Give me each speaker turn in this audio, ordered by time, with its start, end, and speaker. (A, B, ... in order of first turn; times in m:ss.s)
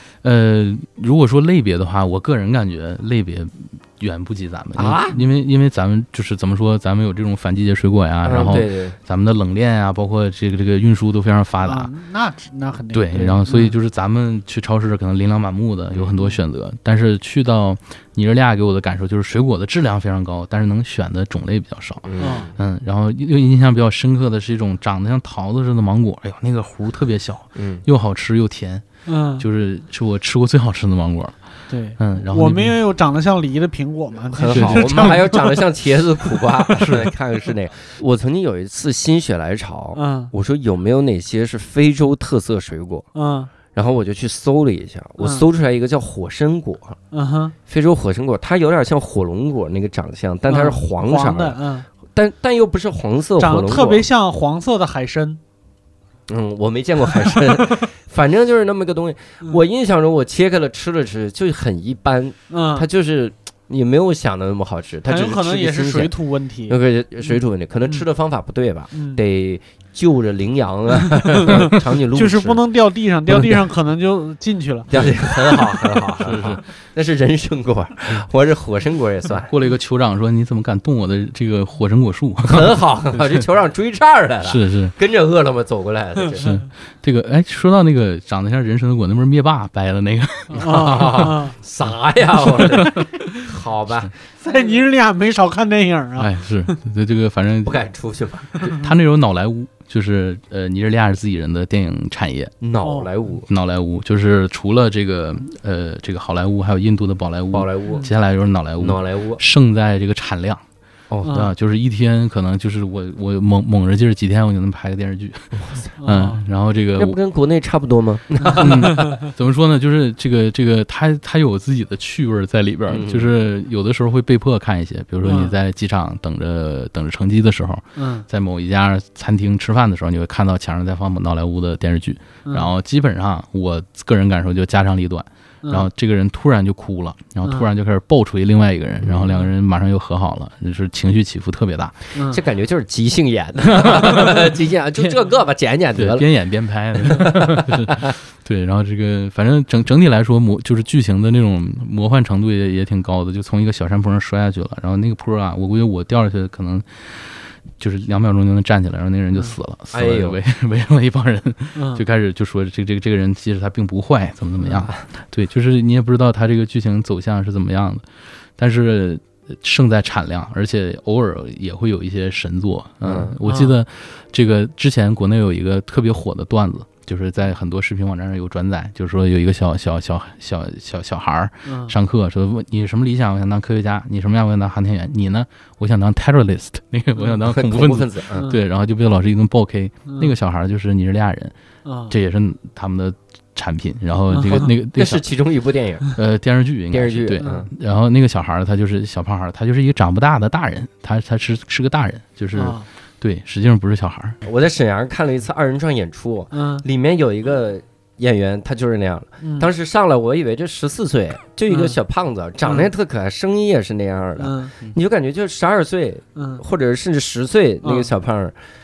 0:00.2-0:11.9 A
0:04.8-0:05.2 B
0:08.2-0:09.0 B
0:11.6-0:13.7 C
0:12.9-0:28.8 A
0:22.0-0:22.5 B
0:22.2-0:22.5 C
0:27.6-0:27.8 B
0:29.1-0:29.5 C
0:29.4-0:31.4 A
0:31.7-0:35.6 C
0:32.0-0:32.8 A
0:34.3-0:43.1 B
0:34.5-0:35.2 A
0:36.8-0:37.1 A
0:40.0-0:40.3 C
0:43.2-0:43.5 C
0:43.7-0:47.0 B
0:45.2-0:45.5 C
0:47.1-0:47.6 C
0:47.7-0:54.0 B
0:50.5-0:51.9 C
0:53.4-0:55.4 C
0:56.3-1:06.1 B
1:02.5-1:02.9 C
1:05.1-1:06.8 C
1:06.7-1:12.6 B
1:08.9-1:09.2 C
1:11.4-1:15.8 C
1:13.3-1:13.6 B
1:14.9-1:19.5 B
1:16.2-1:16.6 A
1:19.5-1:23.4 A
1:22.5-1:26.6 B
1:24.4-1:24.9 A
1:26.4-1:31.4 A
1:30.5-1:31.6 C
1:30.6-1:34.7 B
1:32.4-1:33.5 A
1:34.4-1:36.7 C
1:36.2-1:37.8 A
1:37.6-1:38.7 B
1:38.6-1:42.5 A
1:42.6-1:43.5 B
1:42.8-1:43.1 C
1:43.5-1:50.6 A
1:47.5-1:48.1 B
1:48.8-1:49.4 B
1:51.1-1:51.4 B
1:51.2-1:51.5 C
1:51.3-1:57.2 A
1:55.6-1:55.9 B
1:56.0-1:56.4 C
1:57.0-1:59.2 B
1:58.4-1:59.1 C
1:58.6-2:22.0 A
2:02.9-2:03.3 B
2:05.2-2:05.6 C
2:08.0-2:08.3 C
2:15.6-2:15.9 C
2:19.0-2:19.3 B
2:22.2-2:22.4 C
2:22.2-2:26.3 B
2:23.7-2:25.1 A
2:26.0-3:11.6 A
2:27.0-2:28.1 B
2:39.9-2:40.4 B
2:41.8-2:42.0 C
2:53.0-2:53.3 B
2:53.5-2:53.8 C
3:01.6-3:02.0 C
3:07.4-3:08.5 B
3:10.1-3:10.3 C
3:11.8-3:12.1 C
3:12.1-3:15.2 A
3:14.3-3:14.7 C
3:14.5-3:16.1 B
3:16.2-3:24.4 A
3:16.9-3:17.7 B
3:17.4-3:17.7 C
3:22.6-3:22.8 C
3:24.4-3:38.6 B
3:26.5-3:26.8 C
3:29.4-3:29.7 C
3:31.7-3:32.0 C
3:32.6-3:32.9 C
3:34.4-3:34.7 C
3:36.4-3:36.6 C
3:37.8-3:38.1 C